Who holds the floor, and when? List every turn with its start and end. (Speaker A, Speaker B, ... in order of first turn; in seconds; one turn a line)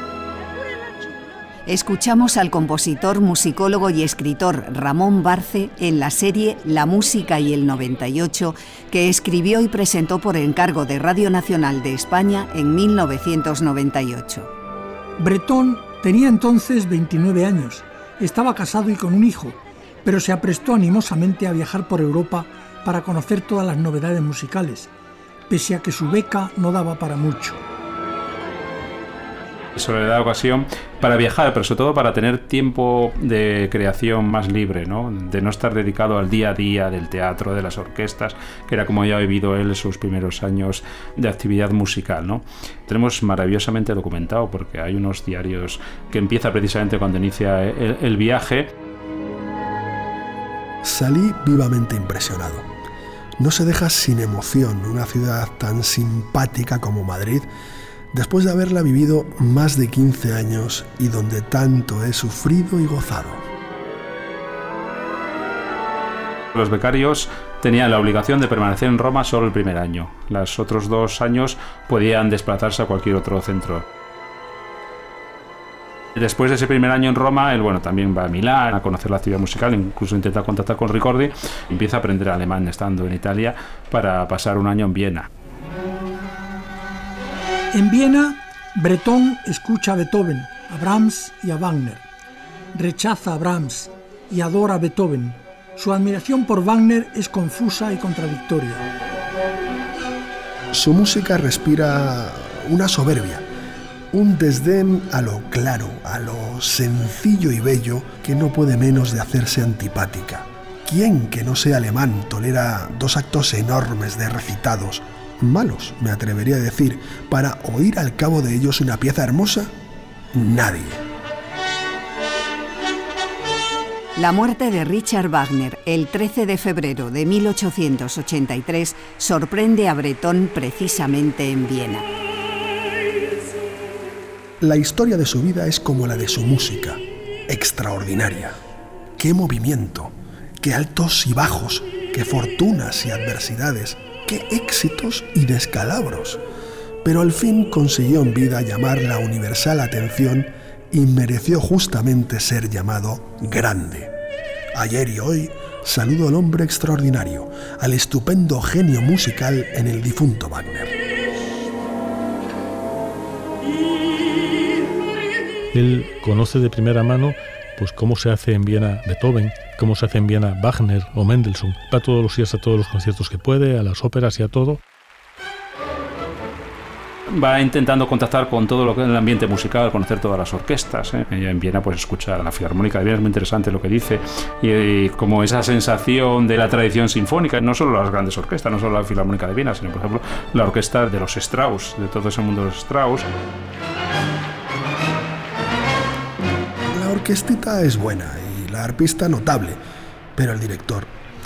Speaker A: 1.7-14.5
Speaker B: 15.2-24.9
Speaker B: 25.5-27.6
Speaker C: 29.7-48.7
Speaker D: 50.8-52.7
Speaker D: 53.4-57.5
Speaker D: 58.1-63.4
Speaker C: 66.5-73.8
Speaker C: 76.1-85.3
Speaker B: 87.7-92.0
Speaker B: 92.7-98.9
Speaker D: 100.7-103.4
Speaker D: 104.1-119.7
Speaker D: 120.3-121.0
Speaker A: 124.2-132.1
Speaker D: 134.6-138.6
Speaker D: 139.2-146.4
Speaker D: 147.0-154.1
Speaker D: 154.7-160.9
Speaker E: 165.7-174.8
Speaker C: 177.3-193.3
Speaker D: 196.9-199.8
Speaker D: 200.3-201.1